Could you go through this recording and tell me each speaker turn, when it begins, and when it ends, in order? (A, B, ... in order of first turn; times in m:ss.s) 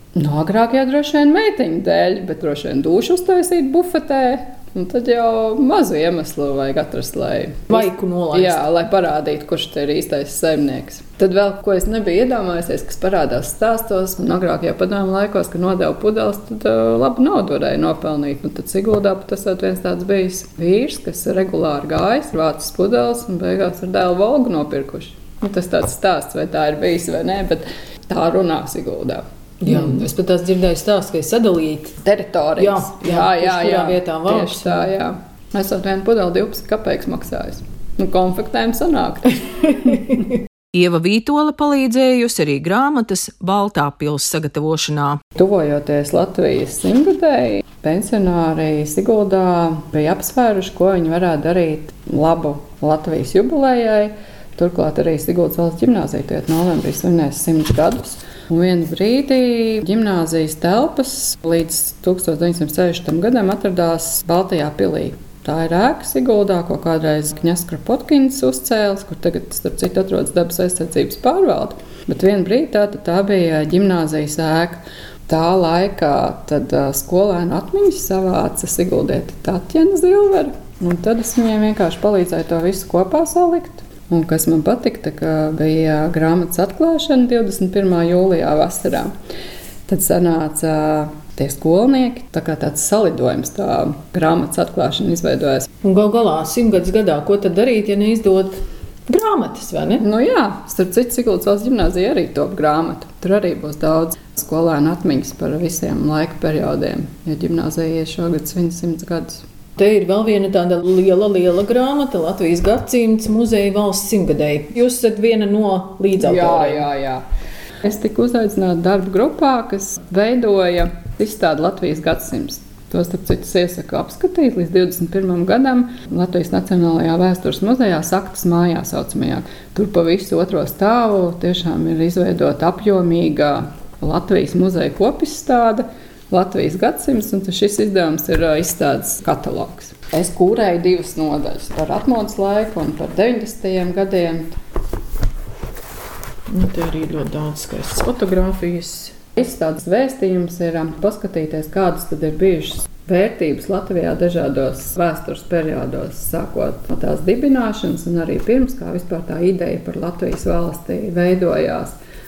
0:00.2-0:30.0 A
0:07.7-0:08.6 B
0:29.6-0:32.0 B
0:32.0-0:40.0 A
0:32.6-0:34.9 B
0:40.7-0:45.2 C
0:45.3-1:29.1 A
1:29.9-1:35.7 A
1:35.8-1:40.0 B
1:40.0-1:49.4 A
1:49.8-1:56.8 B
1:56.2-1:57.2 A
1:57.8-2:24.6 A
2:26.5-2:29.2 B
2:29.4-2:42.0 A